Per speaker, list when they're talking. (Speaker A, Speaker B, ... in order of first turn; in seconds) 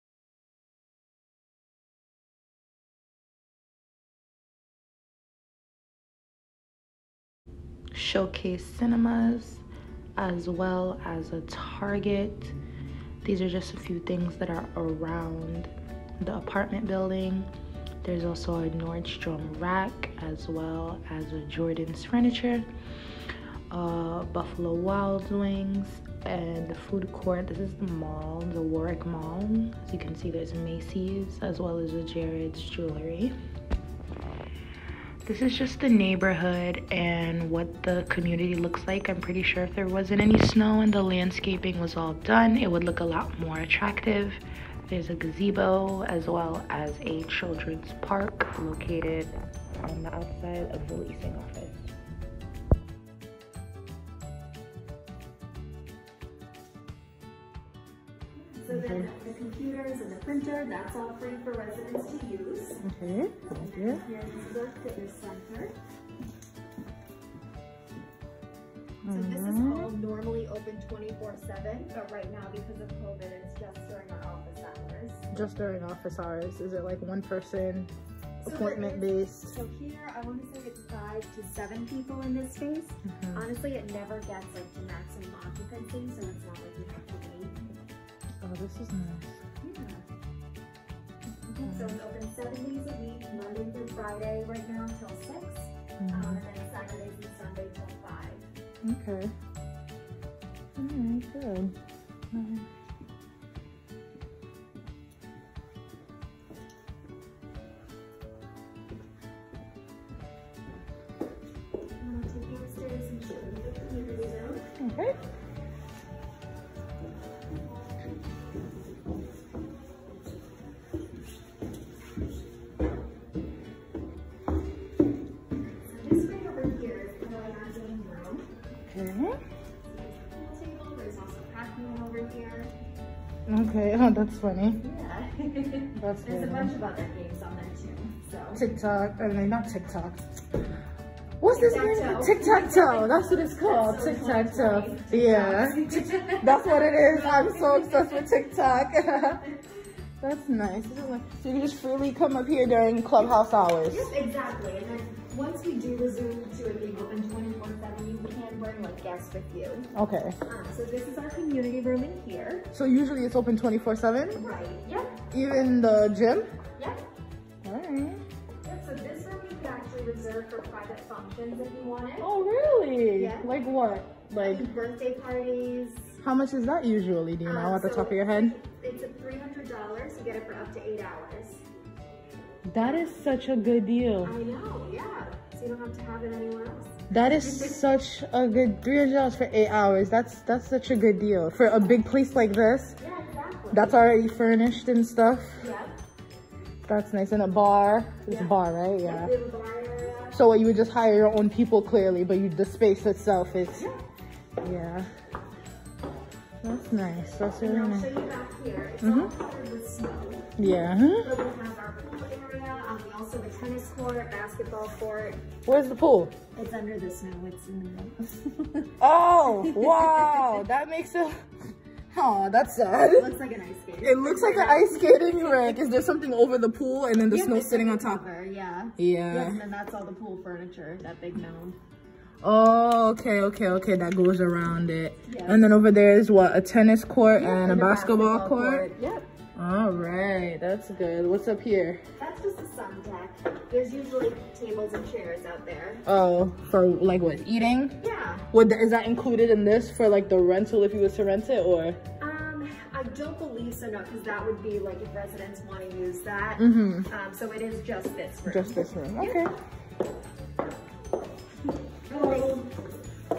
Speaker A: 7.9-9.6, 10.2-12.5, 13.2-17.5, 18.0-22.7, 23.7-33.4, 35.2-51.9, 58.7-59.1, 62.8-64.0, 69.0-69.9, 75.3-79.5, 83.1-83.5, 88.4-89.4, 91.5-92.0, 96.0-96.4, 98.8-99.3, 100.8-101.8, 102.3-102.7, 114.8-115.2, 128.8-129.4, 133.5-134.8, 136.0-136.7, 138.5-140.2, 141.4-149.4, 150.2-154.1, 159.9-160.4, 162.7-164.4, 165.3-166.5, 167.6-168.2, 172.2-174.7, 176.2-178.5, 182.7-184.3, 187.1-193.0, 193.7-195.6, 196.8-199.3, 200.3-203.8, 204.6-205.1, 206.6-208.1, 209.0-209.3, 210.6-211.4, 215.7-216.3, 219.0-221.3, 222.1-223.3, 224.0-228.2, 229.0-229.6, 232.4-238.9, 239.6-242.0, 246.1-248.0, 248.5-252.0, 256.6-257.1, 258.4-259.5
Speaker B: 58.5-62.8, 63.5-65.7, 69.1-75.2, 78.4-87.5, 89.6-90.0, 91.6-98.5, 112.0-114.6, 125.8-128.5, 129.8-132.7, 134.8-138.6, 141.4-148.4, 153.9-159.9, 160.4-162.7, 164.3-165.1, 166.8-167.0, 168.6-172.3, 173.1-173.5, 174.4-176.2, 177.4-181.6, 184.2-187.8, 193.0-193.9, 195.6-195.9, 198.3-200.4, 207.6-210.5, 211.2-215.4, 216.5-218.9, 219.5-220.4, 223.1-225.8, 227.3-231.8, 235.3-235.6, 237.3-239.3, 242.2-246.0, 248.0-248.4, 252.2-259.5, 262.1-262.7